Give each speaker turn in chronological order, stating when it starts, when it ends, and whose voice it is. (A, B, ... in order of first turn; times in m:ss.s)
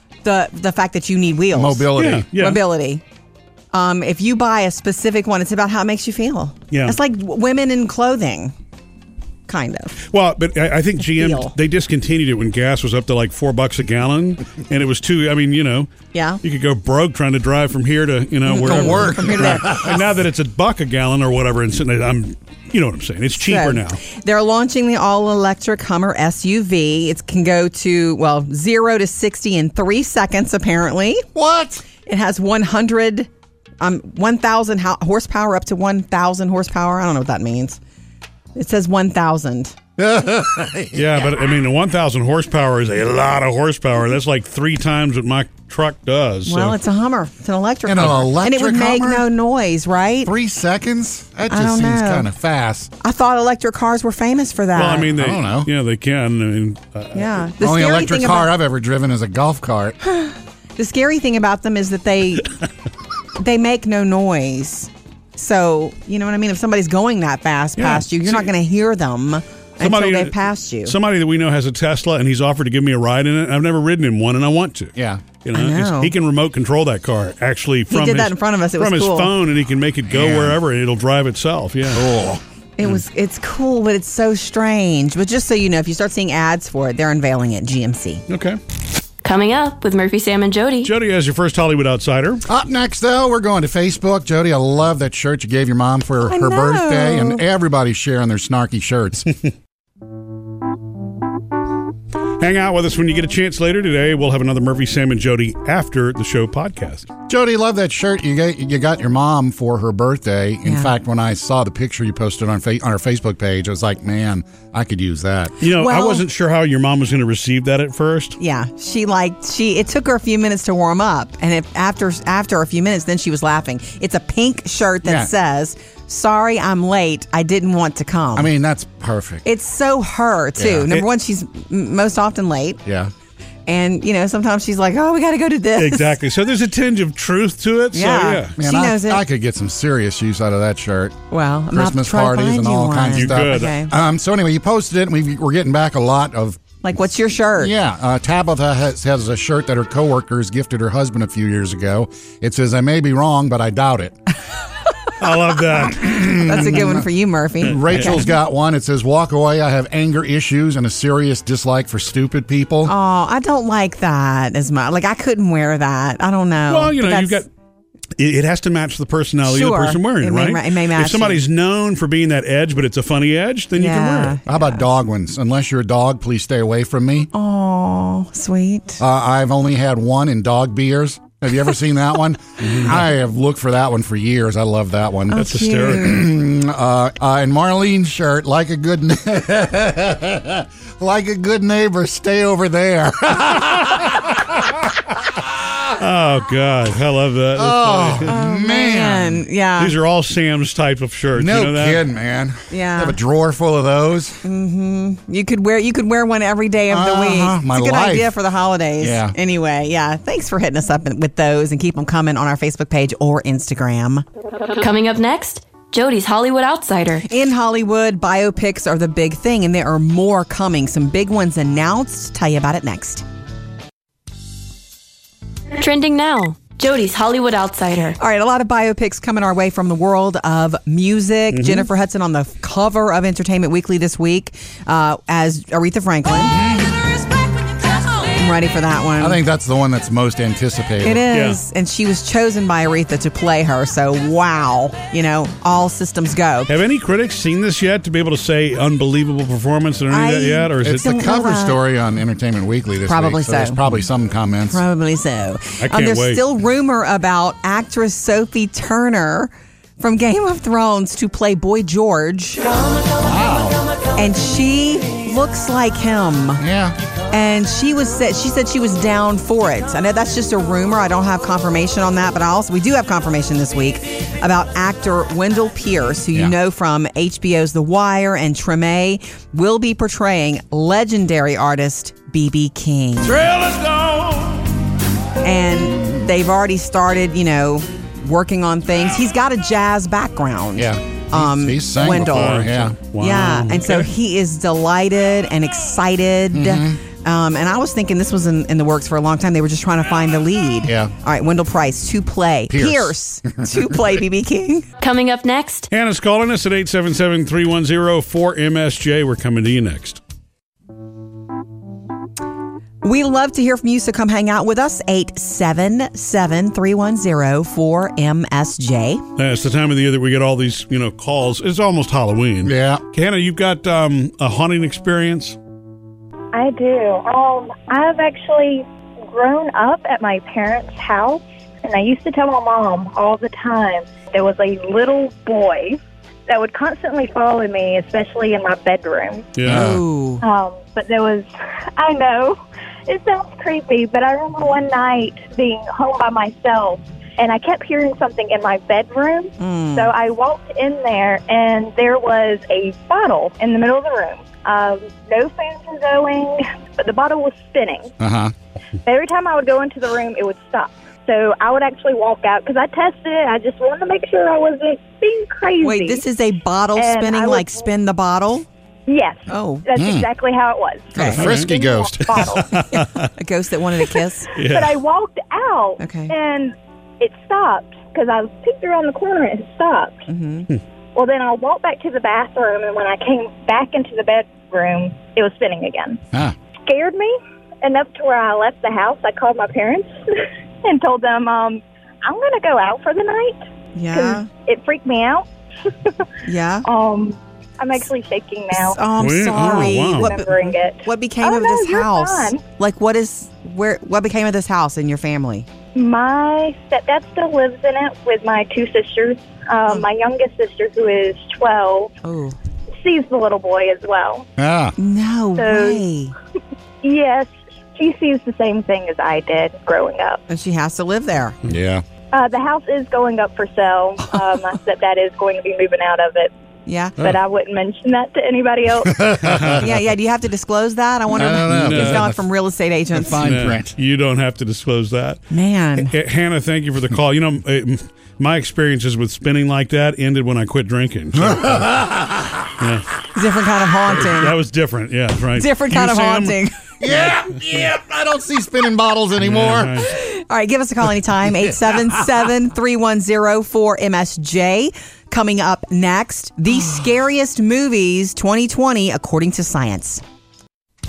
0:00.2-0:03.0 A
0:01.5-0:02.3 B
0:02.0-0:02.6 C
0:03.7-0:08.5 A
0:09.5-0:10.0 A
0:10.1-0:24.0 C
0:11.0-0:11.5 A
0:16.1-0:16.4 A
0:18.5-0:20.0 A
0:18.6-0:20.0 B
0:23.4-0:31.2 A
0:31.3-0:31.8 B
0:32.0-0:33.3 A
0:33.8-0:37.8 A
0:38.6-0:39.8 A
0:40.0-0:41.3 B
0:40.9-0:46.8 C
0:46.5-0:50.3 A
0:47.8-0:49.3 B
0:50.2-0:52.9 B
0:51.5-0:52.3 A
0:53.0-0:55.1 A
0:54.7-0:57.3 C
0:55.2-0:55.7 B
0:57.1-0:58.5 A
0:57.6-1:00.0 B
1:00.0-1:02.5 A
1:03.4-1:10.9 A
1:07.8-1:08.5 C
1:09.8-1:22.1 C
1:15.0-1:15.2 B
1:15.5-1:16.1 A
1:17.9-1:19.3 A
1:20.1-1:20.6 B
1:21.9-1:22.4 B
1:22.8-1:28.2 A
1:28.3-1:28.6 C
1:29.2-1:30.9 D
1:30.8-1:32.4 C
1:32.5-1:39.3 B
1:36.2-1:37.4 A
1:42.4-1:47.1 C
1:47.3-1:55.5 B
1:50.6-1:50.9 A
1:55.6-1:58.4 C
1:55.6-1:56.2 A
1:58.4-2:08.5 A
2:05.0-2:05.3 B
2:08.3-2:09.4 B
2:09.4-2:12.8 A
2:10.6-2:10.9 B
2:12.8-2:13.1 B
2:13.7-2:16.2 A
2:15.8-2:18.5 C
2:17.9-2:19.2 A
2:18.6-2:21.2 B
2:21.3-2:23.9 A
2:21.7-2:26.6 B
2:23.1-2:23.7 C
2:26.8-2:27.7 A
2:27.6-2:34.1 B
2:35.2-2:36.3 C
2:35.9-2:37.0 B
2:36.0-2:38.3 A
2:37.6-2:42.9 B
2:37.9-2:38.2 C
2:42.8-2:47.4 A
2:46.7-2:47.5 C
2:48.2-2:54.4 C
2:49.4-2:51.4 A
2:53.8-2:54.8 A
2:54.5-2:57.3 B
2:57.3-2:59.0 A
2:59.0-3:14.8 B
3:05.3-3:06.2 A
3:05.3-3:06.2 C
3:15.9-3:18.3 C
3:17.6-3:19.4 B
3:18.2-3:19.9 A
3:19.8-3:22.0 C
3:21.3-3:24.4 B
3:22.7-3:23.2 A
3:24.4-3:34.2 A
3:26.9-3:28.3 B
3:29.0-3:29.3 B
3:34.8-3:37.3 D
3:37.2-3:43.2 A
3:45.8-3:48.2 D
3:48.2-3:56.6 A
3:51.5-3:51.9 C
3:56.6-3:57.0 B
3:58.3-3:59.4 A
3:59.2-4:01.2 B
4:01.0-4:06.7 A
4:01.3-4:01.6 C
4:06.7-4:11.0 C
4:10.1-4:11.8 A
4:10.8-4:14.8 B
4:13.1-4:13.8 A
4:14.7-4:23.0 A
4:15.8-4:16.4 C
4:23.2-4:23.8 B
4:24.1-4:26.6 A
4:26.6-4:27.0 B
4:27.3-4:43.5 A
4:45.4-4:52.6 A
4:50.8-4:53.0 B
4:52.3-4:54.1 C
4:53.2-5:04.9 A
4:56.5-4:57.0 B
5:00.8-5:01.1 B
5:02.7-5:04.0 B
5:05.0-5:05.9 D
5:05.9-5:10.2 C
5:13.0-5:19.2 A
5:19.4-5:25.6 C
5:22.6-5:23.0 B
5:26.5-5:39.5 E
5:39.6-5:39.9 C
5:39.7-5:40.0 B
5:39.7-5:40.4 A
5:40.4-5:58.1 E
5:49.6-5:50.1 A
5:58.2-5:58.5 B
5:59.0-6:06.2 E
6:05.8-6:08.6 A
6:07.0-6:07.8 E
6:09.1-6:12.8 E
6:09.5-6:09.8 A
6:09.9-6:10.3 B
6:11.1-6:11.4 A
6:11.2-6:12.6 B
6:11.3-6:13.3 C
6:12.9-6:14.5 A
6:14.6-6:15.0 C
6:14.6-6:20.2 E
6:16.0-6:16.3 A
6:20.3-6:20.7 A
6:21.1-6:26.2 E
6:26.8-6:35.4 E
6:33.9-6:34.5 A
6:36.4-6:36.8 A
6:36.8-6:39.0 E
6:38.7-6:45.7 A
6:39.2-6:40.3 C
6:39.6-6:42.6 E
6:45.9-6:52.1 E
6:52.2-6:52.6 A
6:53.0-6:54.5 E
6:54.6-6:55.0 B
6:55.0-6:56.3 A
6:55.6-6:56.0 E
6:57.0-7:00.4 E
7:00.5-7:01.6 A
7:01.6-7:02.0 B
7:02.3-7:06.5 E
7:06.9-7:07.2 A
7:07.2-7:09.3 E
7:09.0-7:09.8 B
7:09.4-7:09.8 C
7:09.8-7:13.4 A
7:11.3-7:12.3 B
7:11.7-7:12.3 C
7:13.1-7:13.9 B
7:13.3-7:15.4 C
7:15.5-7:16.1 A
7:16.0-7:21.8 C
7:21.4-7:22.7 B
7:22.8-7:23.1 C
7:23.3-7:24.5 A
7:24.1-7:26.6 C
7:25.6-7:26.7 A
7:27.0-7:30.0 B
7:29.4-7:30.1 C
7:30.1-7:40.2 A